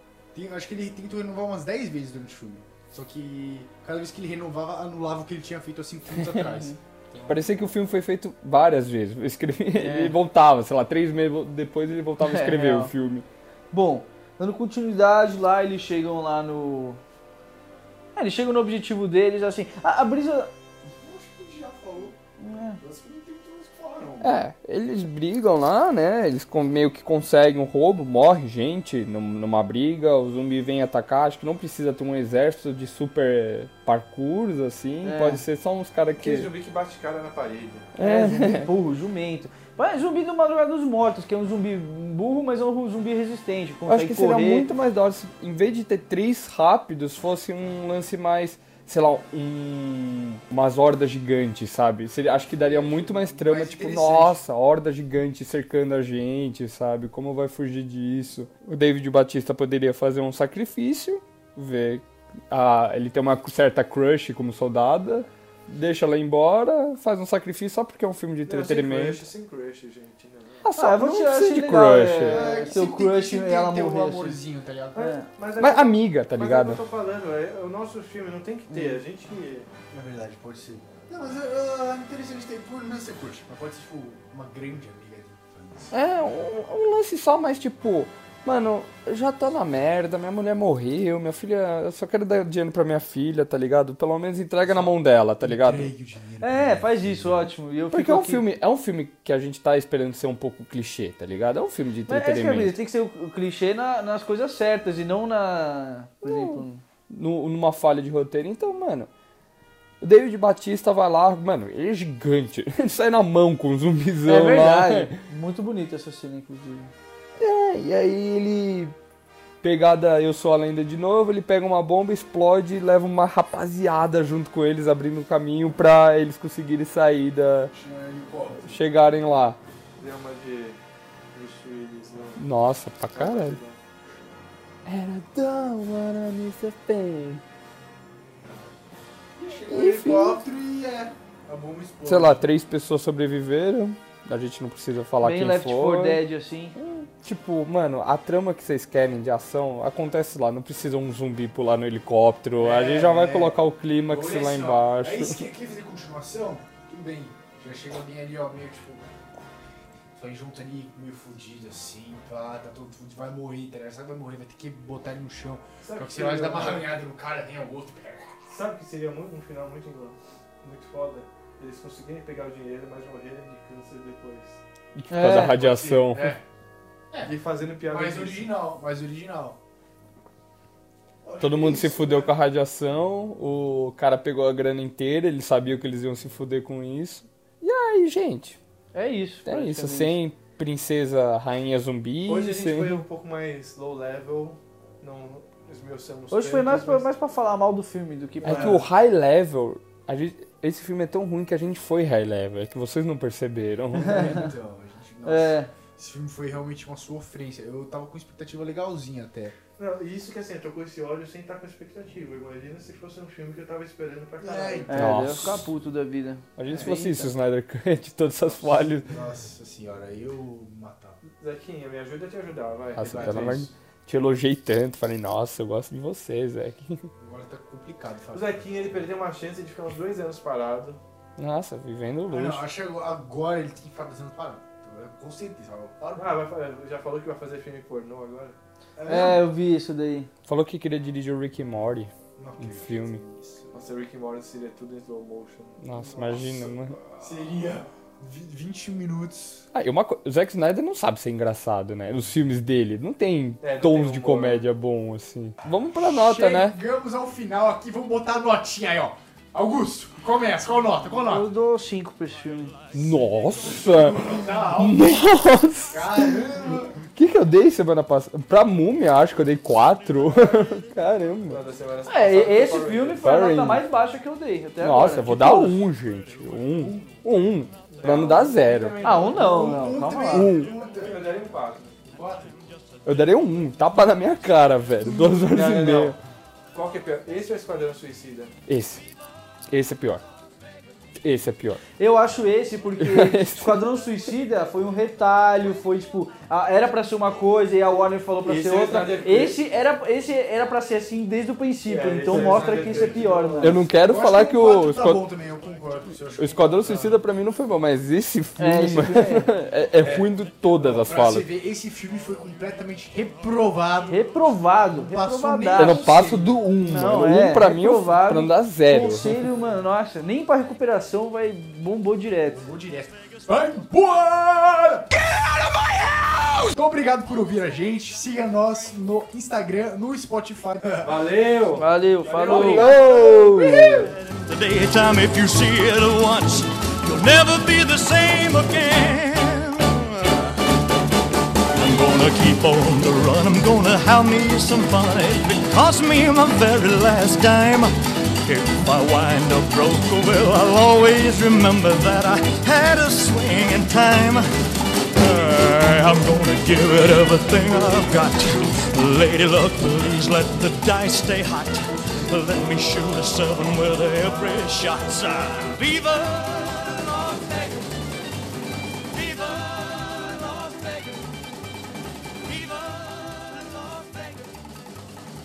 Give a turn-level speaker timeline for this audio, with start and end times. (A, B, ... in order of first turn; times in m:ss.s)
0:00.3-0:07.7 A
0:06.5-0:06.8 B
0:07.2-0:13.2 C
0:09.8-0:10.2 B
0:12.2-0:12.9 B
0:13.7-0:17.0 B
0:18.1-0:20.5 B
0:21.0-0:22.2 A
0:22.4-0:22.8 B
0:22.8-0:24.3 A
0:24.2-0:36.5 C
0:35.0-0:35.4 B
0:36.2-0:37.9 D
0:38.0-0:38.7 C
0:38.0-0:44.7 B
0:43.9-1:09.2 C
0:52.4-0:54.4 A
1:08.5-1:10.7 D
1:10.6-1:12.5 C
1:10.8-1:14.4 B
1:12.3-1:15.2 A
1:15.0-1:15.2 B
1:15.0-1:19.7 D
1:15.6-1:16.8 C
1:18.7-1:19.0 B
1:19.9-1:26.0 A
1:25.9-1:35.9 C
1:34.6-1:37.5 A
1:36.4-1:38.4 B
1:37.9-1:42.8 C
1:42.1-1:46.8 B
1:46.2-1:49.1 C
1:50.0-1:55.2 C
1:54.2-1:56.9 B
1:57.4-1:58.9 C
1:59.6-2:07.7 C
2:07.7-2:08.8 A
2:08.6-2:09.6 C
2:10.0-2:10.8 D
2:11.3-2:12.4 D
2:12.4-2:13.6 C
2:13.1-2:13.8 D
2:14.8-2:17.4 C
2:19.4-2:22.4 A
2:19.7-2:20.4 C
2:22.0-2:26.2 C
2:25.2-2:26.7 B
2:26.8-2:35.5 C
2:32.6-2:39.0 A
2:40.1-2:48.4 A
2:45.8-2:46.9 D
2:48.5-2:54.6 D
2:55.0-2:56.4 C
2:55.1-2:55.5 B
2:55.2-2:56.4 A
2:57.2-2:58.5 D
2:57.9-2:59.6 A
3:01.2-3:02.3 A
3:01.4-3:08.6 C
3:08.9-3:10.2 B
3:09.4-3:13.0 C
3:12.2-3:17.1 D
3:16.3-3:18.8 B
3:18.4-3:24.4 C
3:18.4-3:18.8 A
3:23.9-3:29.6 A
3:24.0-3:24.4 B
3:25.2-3:25.7 B
3:29.8-3:35.1 D
3:34.4-3:35.6 A
3:34.5-3:37.3 B
3:34.9-3:35.7 C
3:36.6-3:39.2 C
3:36.7-3:37.1 A
3:39.1-3:41.2 A
3:41.4-3:43.6 D
3:43.0-3:47.1 C
3:43.0-3:43.7 A
3:47.2-3:49.0 A
3:48.3-3:51.0 D
3:51.4-3:52.6 C
3:52.3-3:56.4 A
3:56.2-3:58.6 D
3:59.0-3:59.5 A
3:59.0-4:00.3 B
4:00.4-4:03.2 C
4:02.4-4:03.7 A
4:03.7-4:06.8 D
4:05.8-4:07.0 C
4:07.1-4:09.6 A
4:09.7-4:16.8 C
4:13.6-4:14.6 D
4:15.9-4:21.5 A
4:21.3-4:22.8 B
4:22.9-4:26.4 C
4:23.6-4:25.3 A
4:25.9-4:27.0 A
4:27.1-4:31.6 C
4:31.5-4:33.2 D
4:32.0-4:35.8 B
4:33.2-4:33.8 C
4:34.8-4:39.1 C
4:36.7-4:37.1 A
4:37.9-4:40.0 D
4:39.0-4:40.5 B
4:39.1-4:41.3 A
4:40.3-4:40.7 C
4:40.7-4:42.0 D
4:42.0-4:42.6 A
4:43.0-4:46.2 C
4:45.2-4:46.1 D
4:46.7-4:48.5 D
4:48.7-4:49.0 C
4:49.7-4:50.2 C
4:51.2-4:51.8 C
4:52.0-5:03.8 B
4:53.0-4:53.8 C
4:58.4-4:59.6 D
5:01.8-5:03.8 D
5:02.3-5:03.3 A
5:03.6-5:05.2 C
5:03.9-5:07.1 A
5:06.4-5:11.5 C
5:08.6-5:09.5 B
5:10.0-5:14.3 A
5:14.1-5:16.3 B
5:14.9-5:17.3 A
5:15.8-5:19.5 C
5:16.9-5:22.6 B
5:22.5-5:25.2 A
5:26.5-5:31.2 A
5:31.0-5:32.9 D
5:31.8-5:32.9 B
5:32.3-5:34.0 A
5:32.4-5:34.1 C
5:34.0-5:40.6 E
5:41.7-5:47.9 E
5:48.4-5:54.4 E
5:55.1-6:08.0 E
6:09.1-6:11.4 E
6:12.4-6:14.6 E